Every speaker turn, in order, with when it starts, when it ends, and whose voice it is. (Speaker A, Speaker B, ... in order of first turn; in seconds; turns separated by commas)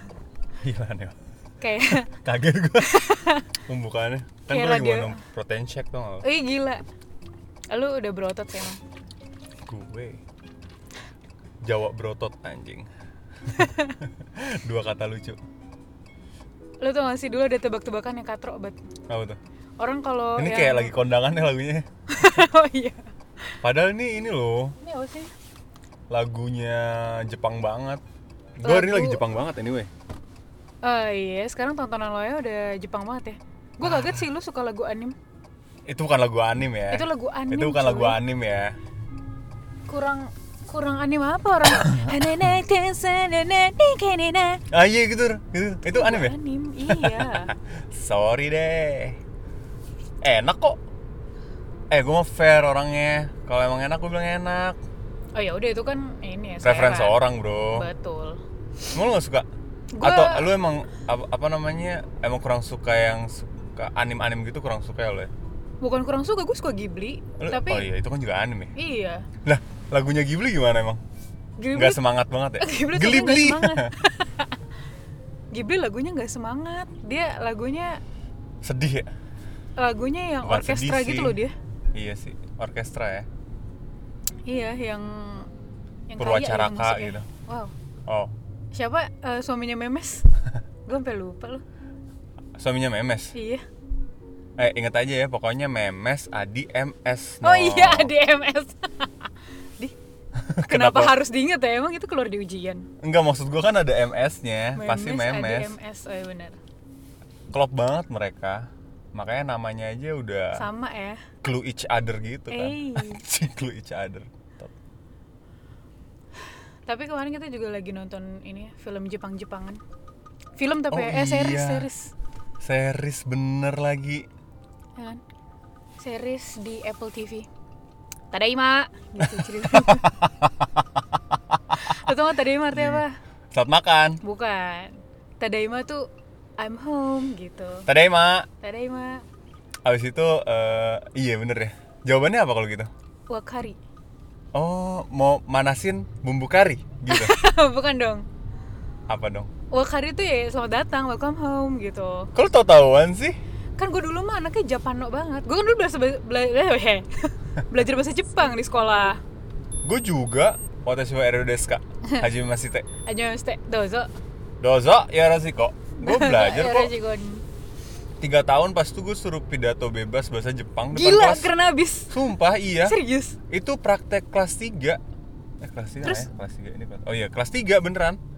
Speaker A: 0.6-1.1, Speaker B: 1.6-2.1, Speaker A: 1.9-3.1, Speaker B: 2.8-3.5, Speaker A: 3.7-6.2, Speaker B: 4.5-5.2, Speaker B: 6.2-6.8, Speaker B: 7.7-8.8, Speaker A: 9.7-10.2, Speaker A: 11.6-12.9, Speaker A: 13.5-15.4, Speaker B: 13.6-14.0, Speaker B: 16.8-18.8, Speaker A: 19.1-19.4, Speaker B: 19.8-20.9, Speaker A: 20.4-21.9, Speaker B: 22.1-23.0, Speaker A: 23.6-24.8, Speaker B: 24.8-25.3, Speaker A: 26.1-28.0, Speaker A: 28.6-29.9, Speaker B: 28.6-29.2, Speaker B: 30.8-35.2, Speaker A: 33.8-34.2, Speaker A: 35.9-38.8, Speaker B: 36.9-38.2, Speaker B: 39.9-44.6, Speaker A: 41.8-42.3, Speaker A: 44.7-49.2, Speaker B: 45.9-47.5, Speaker A: 50.2-50.8, Speaker A: 51.9-54.8, Speaker B: 55.4-57.2, Speaker A: 56.6-57.9, Speaker B: 57.7-58.4, Speaker A: 58.9-59.5, Speaker B: 59.9-60.5, Speaker A: 60.0-65.3, Speaker B: 65.8-67.9, Speaker A: 67.4-68.7, Speaker B: 68.8-69.3, Speaker A: 69.4-71.0, Speaker B: 71.6-72.0, Speaker A: 71.7-73.9, Speaker B: 72.6-74.6, Speaker B: 75.5-78.0, Speaker A: 78.6-79.1, Speaker B: 79.8-81.5, Speaker A: 80.4-81.4, Speaker A: 81.9-83.3, Speaker B: 84.5-85.5, Speaker B: 86.1-87.7, Speaker A: 86.2-87.3, Speaker A: 88.1-88.3, Speaker B: 88.7-90.3, Speaker B: 90.9-91.6, Speaker A: 92.6-93.3, Speaker B: 93.3-93.6, Speaker A: 94.6-98.1, Speaker B: 97.4-99.9, Speaker A: 100.4-101.2, Speaker B: 100.7-102.9, Speaker A: 103.0-105.8, Speaker B: 104.8-106.6, Speaker A: 107.5-110.7, Speaker B: 110.5-111.2, Speaker A: 111.4-114.7, Speaker B: 112.5-113.2, Speaker B: 116.9-119.8, Speaker B: 120.6-122.1, Speaker A: 120.9-121.9, Speaker A: 122.6-124.3, Speaker B: 126.0-127.5, Speaker B: 128.3-130.1, Speaker A: 129.2-131.9, Speaker B: 131.8-133.2, Speaker A: 132.7-134.2, Speaker B: 134.2-136.1, Speaker B: 136.6-137.9, Speaker A: 137.9-138.5, Speaker B: 138.6-139.2, Speaker A: 139.8-142.9, Speaker B: 143.3-143.8, Speaker A: 144.5-147.4, Speaker B: 147.1-148.3, Speaker A: 149.1-149.5, Speaker B: 149.7-152.3, Speaker A: 152.3-153.4, Speaker B: 153.8-159.2, Speaker A: 159.8-162.9, Speaker B: 163.1-164.1, Speaker A: 164.6-166.9, Speaker B: 166.0-167.4, Speaker A: 168.2-171.5, Speaker B: 170.9-172.2, Speaker A: 172.1-173.0, Speaker B: 172.8-173.4, Speaker A: 173.5-175.0, Speaker A: 175.6-178.2, Speaker B: 176.0-176.3